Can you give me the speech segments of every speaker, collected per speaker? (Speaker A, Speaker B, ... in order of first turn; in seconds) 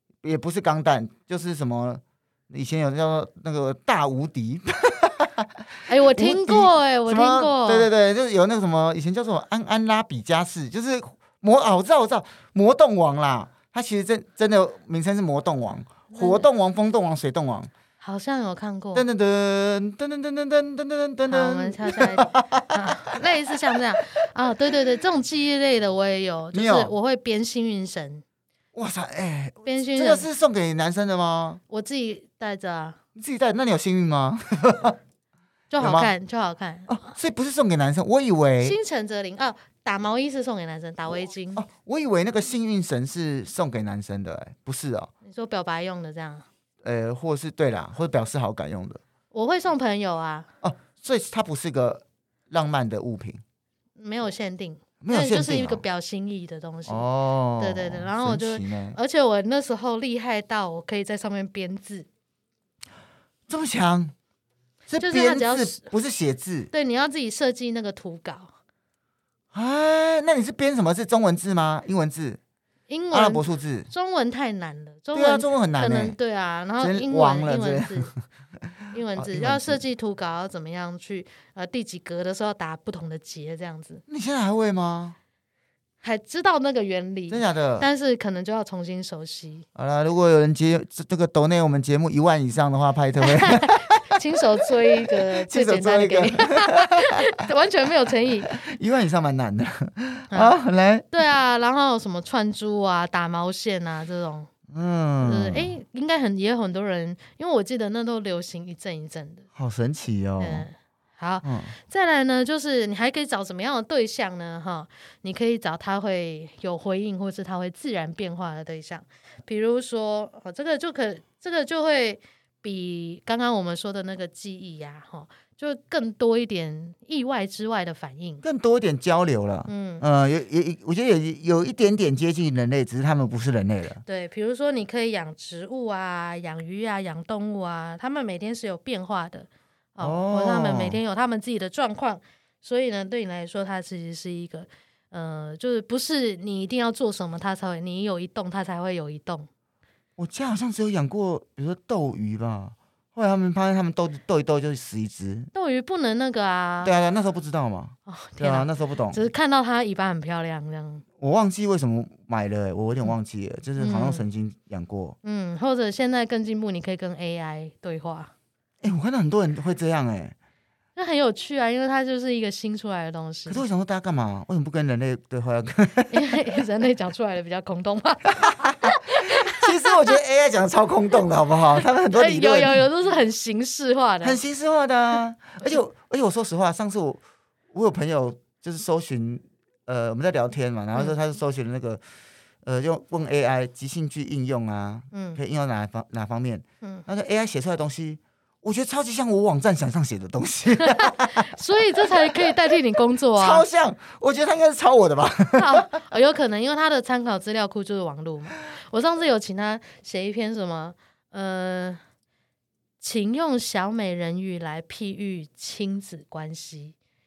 Speaker A: 0.2-17.7, 18.9-23.7, 26.5-26.9, 28.7-31.6, 33.1-35.0, 35.8-36.1, 36.9-38.8, 41.1-45.1, 46.8-49.0, 50.6-53.4, 55.0-55.8, 56.9-59.0, 63.5-64.1, 64.9-66.7, 69.5-72.4, 73.1-73.9, 75.1-76.2, 76.8-78.2, 79.2-79.8, 84.1-85.2, 87.3-87.9, 89.7-94.0, 95.0-97.2, 98.5-101.1, 104.7-105.7, 109.5-110.7, 111.4-111.7, 128.4-134.0, 140.0-141.0, 150.2-155.5, 156.8-159.2, 161.2-165.2, 168.8-170.3, 173.5-176.4, 178.4-182.8, 184.2-192.0, 192.6-202.6, 203.3-206.0
Speaker B: 5.9-7.9, 16.1-16.4, 18.0-19.1, 21.3-28.2, 29.6-30.3, 31.7-33.0, 35.7-37.1, 38.6-41.6, 45.2-46.4, 49.3-50.5, 54.0-57.0, 57.6-62.1, 65.0-65.9, 66.7-68.5, 72.9-78.1, 78.9-84.0, 86.0-89.6, 93.2-98.5, 100.3-100.6, 101.1-104.5, 105.2-109.5, 110.4-128.4, 129.7-130.0, 134.0-149.5, 155.5-156.9, 158.1-161.0, 163.8-164.2, 165.2-168.3, 170.9-173.6, 176.1-180.2, 181.8-184.4, 195.1-195.4, 200.8-203.6, 205.6-212.0, 213.0-216.9